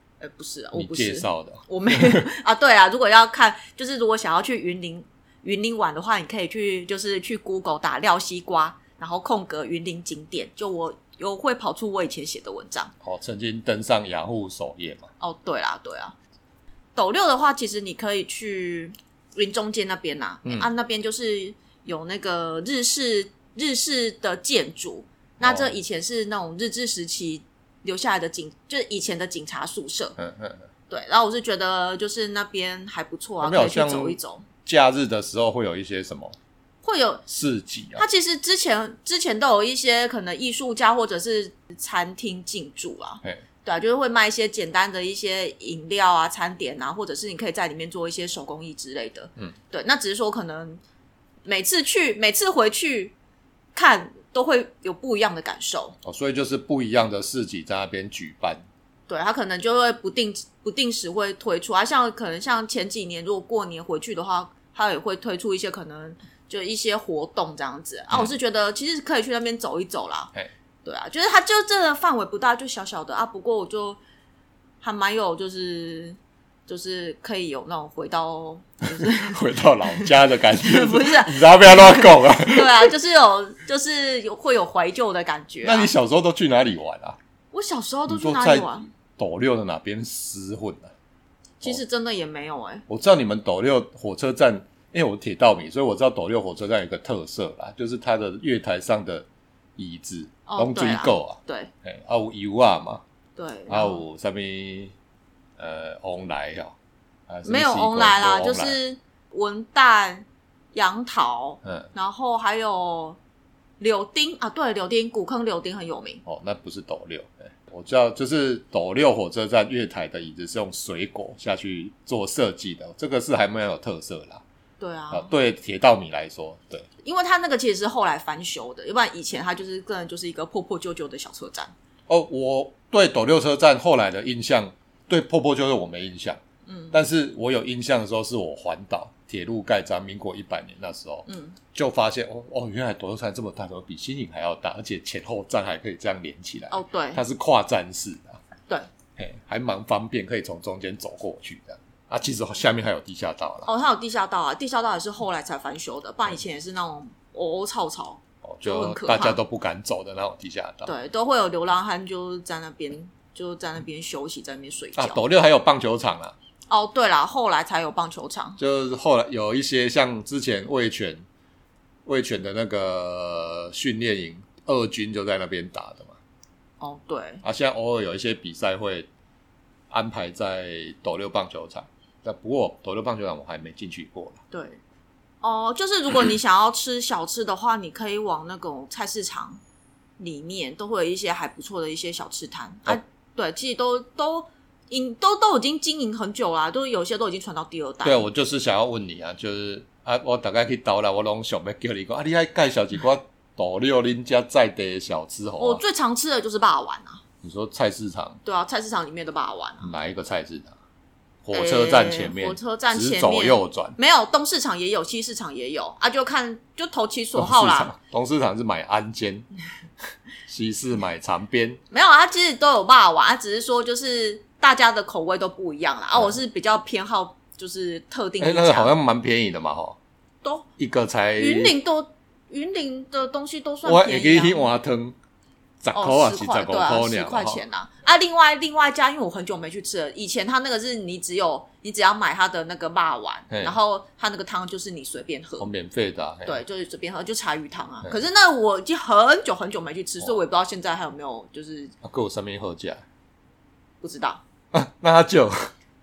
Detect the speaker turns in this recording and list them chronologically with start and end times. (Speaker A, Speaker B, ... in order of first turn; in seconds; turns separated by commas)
Speaker A: 0.2-12.9, Speaker B: 0.7-2.2, Speaker B: 13.0-15.1, Speaker A: 15.2-16.1, Speaker A: 16.9-30.1, Speaker B: 25.4-25.8, Speaker B: 30.2-30.6, Speaker A: 30.9-34.5, Speaker B: 33.4-36.4, Speaker A: 36.8-37.2, Speaker B: 37.3-38.0, Speaker A: 38.0-50.8, Speaker A: 51.4-53.1, Speaker A: 53.7-56.0, Speaker B: 56.0-58.6, Speaker A: 59.1-70.3, Speaker A: 70.8-74.0, Speaker A: 74.8-85.9, Speaker B: 79.0-82.9, Speaker B: 85.6-87.2, Speaker A: 87.5-88.9, Speaker B: 88.1-90.9, Speaker A: 91.6-92.8, Speaker B: 92.9-99.2, Speaker B: 99.8-103.0, Speaker A: 100.5-101.7, Speaker A: 103.3-104.0, Speaker B: 103.7-104.9, Speaker B: 105.6-106.8, Speaker B: 107.3-108.8, Speaker A: 107.4-113.2, Speaker A: 113.8-116.2, Speaker B: 116.2-124.4, Speaker A: 124.8-125.3, Speaker B: 125.1-126.9, Speaker A: 127.0-131.7, Speaker B: 132.1-136.4, Speaker A: 136.7-137.0, Speaker B: 136.9-148.4, Speaker A: 141.3-141.6, Speaker A: 146.7-147.2, Speaker B: 149.2-153.7, Speaker A: 153.6-159.4, Speaker B: 158.4-160.9, Speaker A: 160.8-165.2, Speaker B: 164.9-166.3, Speaker A: 166.7-168.6, Speaker B: 168.6-171.2, Speaker B: 172.1-176.2, Speaker A: 176.8-177.4, Speaker B: 177.4-179.1, Speaker B: 179.9-184.4, Speaker A: 184.5-184.8, Speaker A: 185.4-189.6, Speaker A: 190.2-198.2, Speaker B: 198.0-205.8, Speaker A: 205.6-207.2, Speaker B: 207.4-208.4, Speaker A: 208.4-209.9, Speaker B: 209.8-210.8, Speaker B: 211.4-214.0, Speaker A: 211.5-217.9, Speaker B: 217.3-219.5, Speaker B: 220.5-221.8, Speaker A: 221.9-228.9, Speaker B: 228.4-230.0, Speaker B: 230.8-231.8, Speaker A: 231.4-234.6, Speaker B: 233.8-235.2, Speaker B: 235.8-237.6, Speaker A: 235.9-245.7, Speaker B: 243.5-243.8, Speaker B: 245.6-246.6, Speaker A: 246.4-251.9, Speaker B: 252.0-253.0, Speaker A: 254.0-254.4, Speaker B: 254.7-255.7